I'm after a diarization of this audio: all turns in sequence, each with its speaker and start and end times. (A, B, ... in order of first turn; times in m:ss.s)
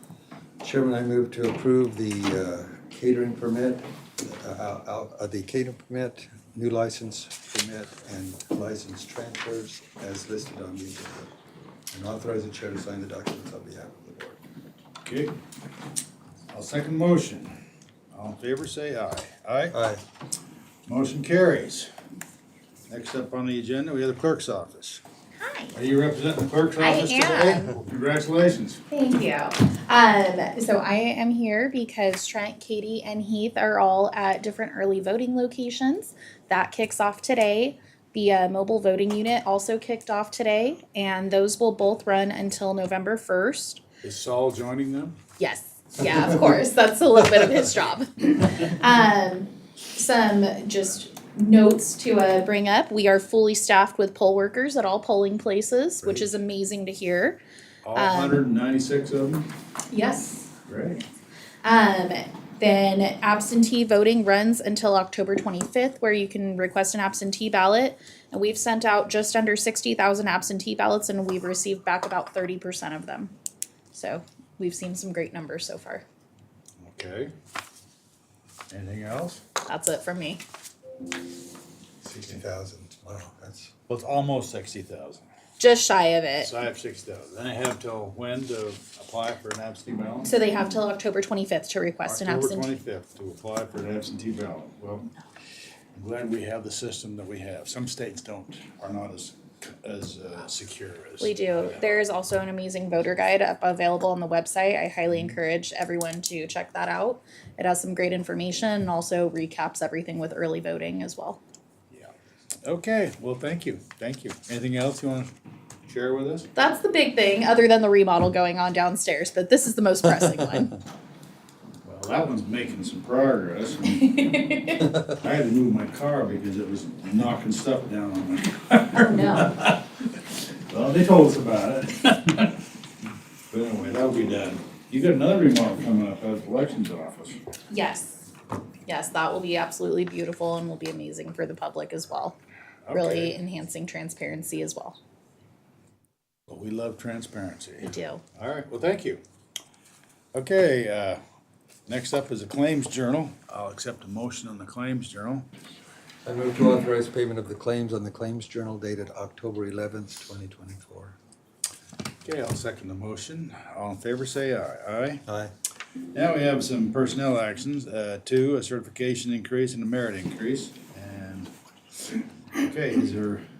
0:00.6-0:11.3 A
0:11.9-0:14.4 A
0:15.0-0:15.3 B
0:16.5-0:17.5 B
0:18.1-0:19.8 B
0:19.7-0:20.0 A
0:20.8-0:21.9 B
0:22.9-0:25.0 B
0:25.4-0:25.7 C
0:25.7-0:28.8 B
0:26.8-0:27.7 C
0:28.9-0:43.8 C
0:44.0-0:45.2 B
0:45.4-0:57.4 C
0:57.8-0:59.5 B
0:57.9-0:58.4 C
0:59.9-1:00.5 C
1:00.7-1:01.0 B
1:01.6-1:13.3 C
1:13.9-1:16.0 C
1:16.8-1:17.3 B
1:18.7-1:19.4 B
1:19.7-1:20.4 C
1:22.0-1:23.7 A
1:23.9-1:25.2 B
1:25.6-1:26.5 C
1:26.4-1:30.3 B
1:30.2-1:32.7 C
1:32.0-1:35.1 B
1:35.9-1:42.0 B
1:41.2-1:51.4 C
1:52.6-1:55.3 B
1:55.8-1:56.5 B
1:56.6-2:00.8 C
2:01.8-2:04.3 B
2:04.0-2:04.9 C
2:05.1-2:09.8 B
2:09.0-2:09.6 C
2:10.7-2:12.6 B
2:13.5-2:17.4 B
2:17.7-2:18.2 C
2:18.9-2:22.4 C
2:22.8-2:23.4 B
2:22.9-2:25.0 C
2:26.5-2:29.2 B
2:27.8-2:28.2 C
2:30.3-2:31.2 B
2:31.9-2:35.4 B
2:36.2-2:41.2 A
2:42.2-2:45.2 B
2:45.2-2:45.5 A
2:46.1-2:51.5 B
2:52.6-2:53.4 B